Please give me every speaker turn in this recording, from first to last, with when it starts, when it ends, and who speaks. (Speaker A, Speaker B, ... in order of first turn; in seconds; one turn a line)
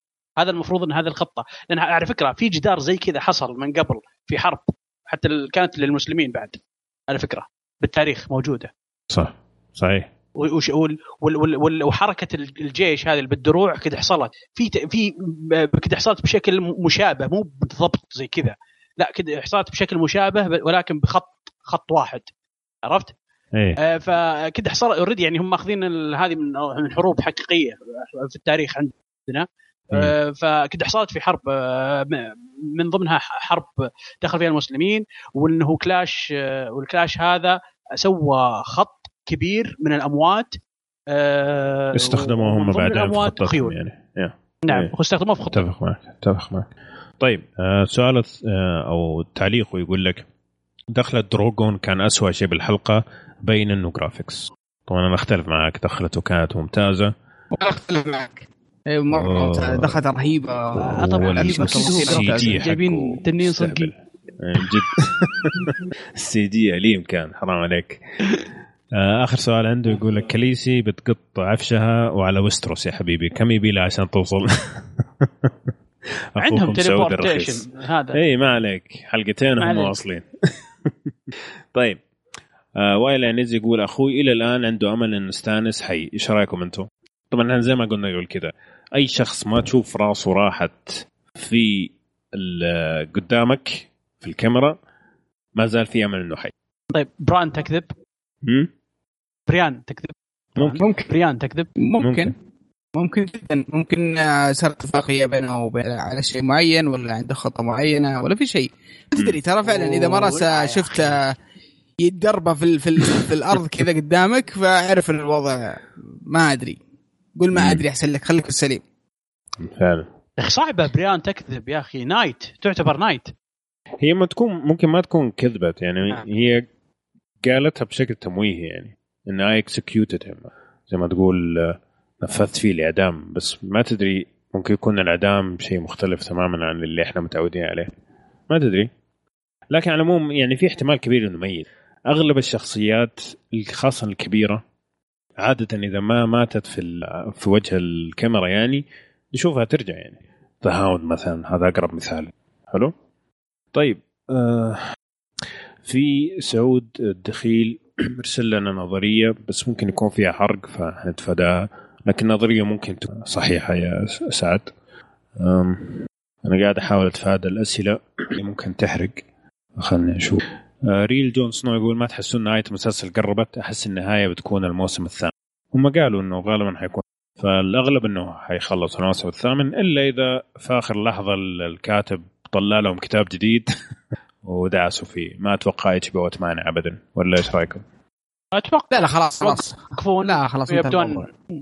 Speaker A: 0.4-8.7
Speaker B: 9.1-10.1
Speaker A: 10.4-22.2
Speaker A: 22.9-23.1
Speaker A: 23.8-33.7
Speaker A: 34.2-40.6
Speaker A: 41.1-43.8
Speaker B: 42.0-44.9
Speaker A: 44.7-45.6
Speaker B: 45.5-46.7
Speaker B: 47.2-50.2
Speaker B: 50.9-57.1
Speaker C: 57.5-62.7
Speaker B: 59.1-60.0
Speaker A: 60.8-63.9
Speaker B: 60.8-68.0
Speaker B: 68.9-75.5
Speaker B: 76.4-77.6
Speaker A: 76.4-78.2
Speaker B: 78.1-80.3
Speaker A: 79.6-80.0
Speaker B: 80.8-81.1
Speaker B: 81.7-82.0
Speaker B: 82.8-94.8
Speaker B: 95.6-96.5
Speaker A: 96.9-97.9
Speaker A: 99.5-101.7
Speaker C: 100.8-101.1
Speaker C: 101.8-102.3
Speaker B: 102.0-102.3
Speaker C: 103.0-111.3
Speaker A: 109.6-111.2
Speaker C: 112.0-116.8
Speaker C: 117.4-118.8
Speaker B: 117.5-117.8
Speaker B: 119.6-120.1
Speaker A: 120.4-123.3
Speaker B: 124.0-126.7
Speaker B: 127.5-137.9
Speaker B: 138.5-138.9
Speaker B: 139.7-144.6
Speaker B: 145.4-152.9
Speaker B: 153.7-154.8
Speaker B: 155.8-164.7
Speaker B: 165.4-169.2
Speaker B: 169.8-183.7
Speaker B: 184.4-187.8
Speaker A: 188.5-191.3
Speaker C: 188.9-191.3